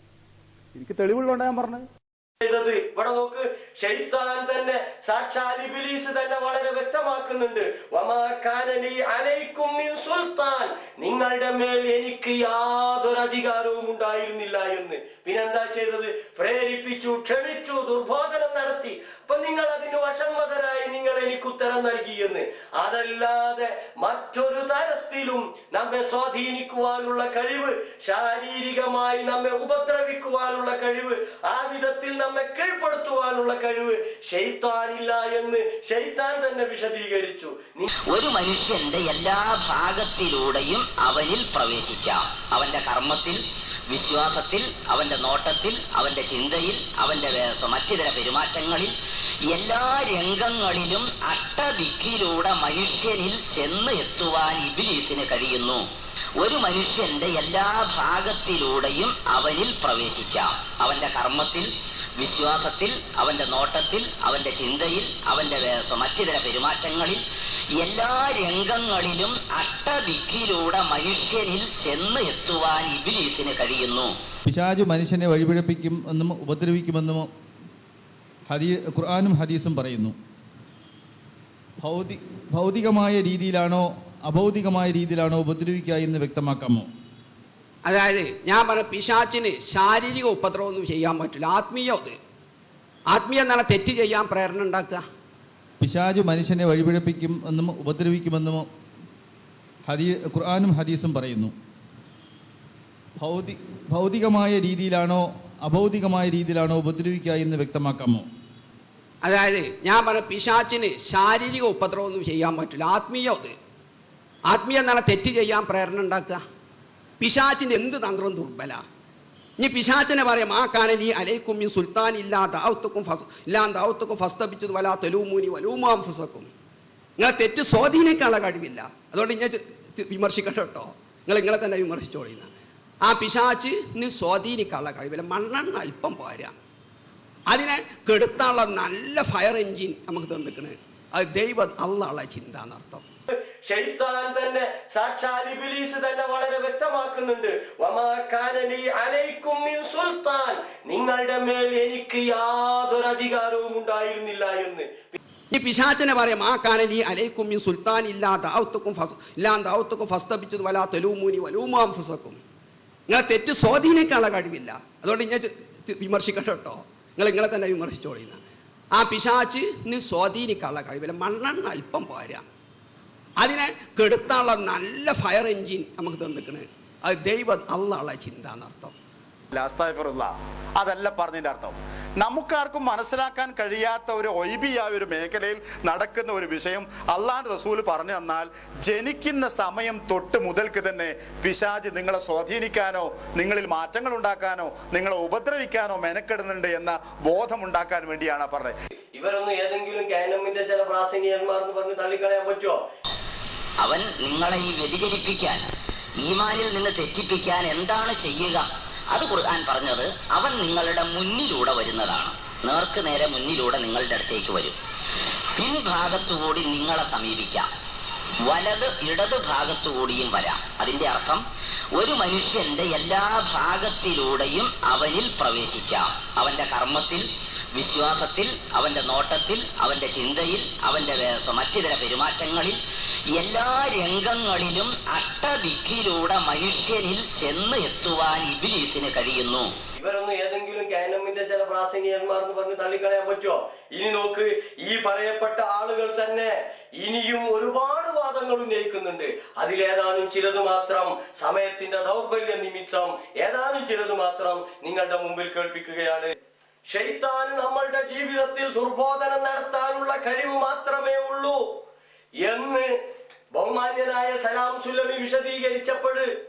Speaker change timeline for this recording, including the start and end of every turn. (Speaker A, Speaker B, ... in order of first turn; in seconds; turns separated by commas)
Speaker A: 0.7-1.8, Speaker B: 2.4-37.8, Speaker C: 38.1-48.9, Speaker C: 49.5-55.8, Speaker C: 56.4-67.2, Speaker C: 67.8-74.1, Speaker D: 74.5-77.3, Speaker D: 78.5-80.1, Speaker D: 81.8-86.9, Speaker E: 87.8-92.2, Speaker E: 93.1-95.0, Speaker D: 95.8-98.7, Speaker D: 99.8-101.5, Speaker D: 103.2-108.2, Speaker E: 109.2-113.5, Speaker E: 114.5-116.4, Speaker E: 117.2-118.8, Speaker E: 119.6-126.5, Speaker E: 127.2-132.5, Speaker E: 133.0-136.5, Speaker E: 137.5-143.0, Speaker B: 143.3-155.2, Speaker E: 155.5-162.4, Speaker E: 163.1-168.4, Speaker E: 168.9-172.4, Speaker E: 173.4-178.9, Speaker A: 179.5-198.8, Speaker B: 199.1-202.8, Speaker C: 203.8-205.6, Speaker C: 206.2-214.8, Speaker C: 215.6-217.7, Speaker C: 218.4-221.4, Speaker C: 221.9-232.8, Speaker C: 233.3-239.7, Speaker B: 240.0-256.3, Speaker B: 256.9-261.8, Speaker B: 262.4-263.0, Speaker B: 263.5-266.3